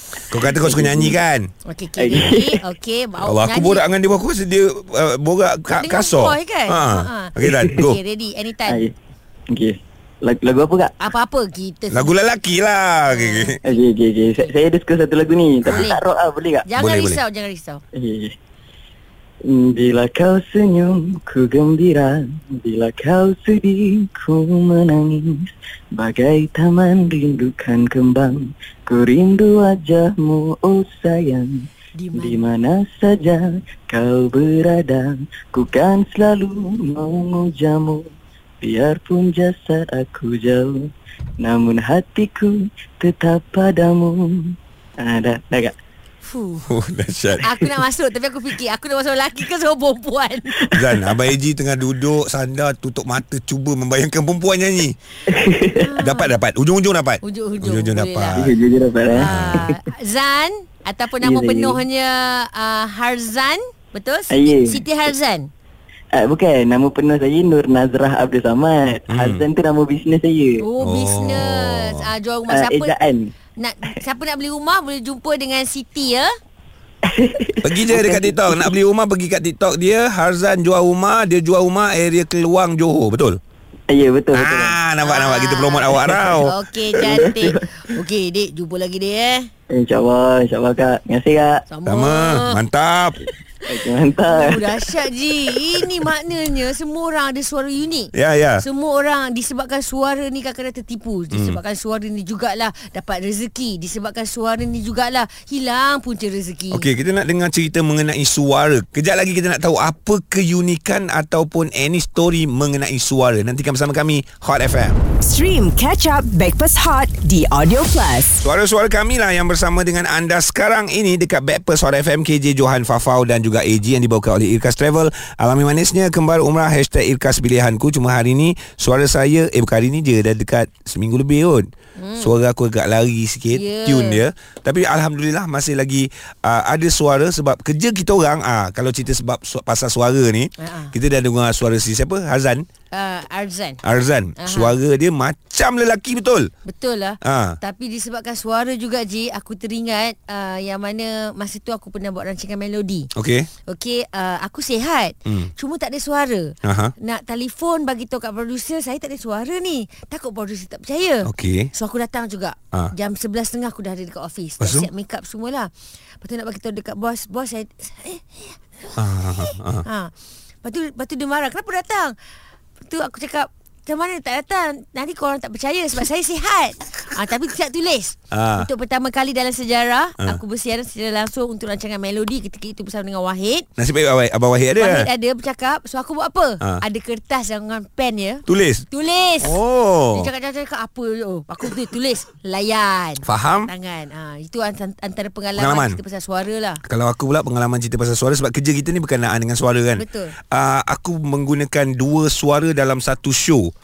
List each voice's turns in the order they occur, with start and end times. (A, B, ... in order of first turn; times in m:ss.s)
0:00.3-0:01.5 A
0:00.5-0:01.2 B
0:01.7-0:03.8 C
0:02.0-0:02.6 B
0:03.2-0:08.0 A
0:05.7-0:08.9 C
0:07.5-0:07.8 B
0:08.7-0:08.9 B
0:09.5-0:10.9 B
0:11.0-0:12.1 C
0:11.9-0:13.6 A
0:13.1-0:14.5 C
0:13.6-0:16.7 B
0:15.6-0:16.0 C
0:16.7-0:17.8 C
0:16.8-0:17.2 A
0:18.0-0:18.3 B
0:19.4-0:38.1 B
0:32.0-0:32.5 C
0:38.6-0:40.9 B
0:41.4-0:45.7 B
0:46.2-0:46.7 C
0:46.7-0:47.4 A
0:47.4-0:50.6 C
0:50.7-0:55.0 A
0:55.3-0:55.8 B
0:55.7-0:56.3 C
0:56.0-0:58.5 A
0:57.2-0:58.5 C
0:58.4-0:59.8 B
0:59.1-1:05.5 C
0:59.1-0:59.7 A
1:01.2-1:01.8 B
1:04.3-1:04.8 B
1:06.1-1:10.6 B
1:09.1-1:09.4 A
1:10.6-1:13.0 C
1:10.8-1:12.1 A
1:12.5-1:13.3 B
1:13.6-1:16.3 C
1:17.0-1:18.7 B
1:17.6-1:23.4 A
1:23.9-1:24.8 B
1:24.3-1:26.5 A
1:25.0-1:29.5 C
1:25.9-1:26.3 B
1:27.0-1:27.6 B
1:29.7-1:31.6 B
1:31.7-1:32.6 C
1:31.9-1:33.2 A
1:33.7-1:34.9 B
1:34.3-1:46.8 C
1:38.1-1:38.6 A
1:41.3-1:41.6 A
1:46.7-1:55.0 A
1:55.2-1:58.4 D
1:58.4-2:22.6 A
2:12.0-2:12.3 C
2:13.5-2:14.2 C
2:20.6-2:20.9 C
2:22.9-2:23.8 C
2:23.8-2:26.5 A
2:24.4-2:24.7 C
2:26.7-2:33.1 C
2:27.2-2:27.6 A
2:33.2-2:33.5 A
2:33.7-2:45.7 C
2:36.6-2:36.9 A
2:41.2-2:41.7 A
2:44.6-2:44.9 A
2:46.2-2:50.1 C
2:49.0-2:49.8 A
2:50.6-2:52.1 C
2:52.8-3:03.7 C
2:58.3-2:58.7 A
3:03.8-3:05.1 A
3:04.8-3:09.6 C
3:08.5-3:08.8 A
3:09.4-3:10.3 A
3:10.1-3:16.8 C
3:13.2-3:13.7 A
3:15.6-3:16.0 A
3:16.9-3:23.7 A
3:20.0-3:20.4 C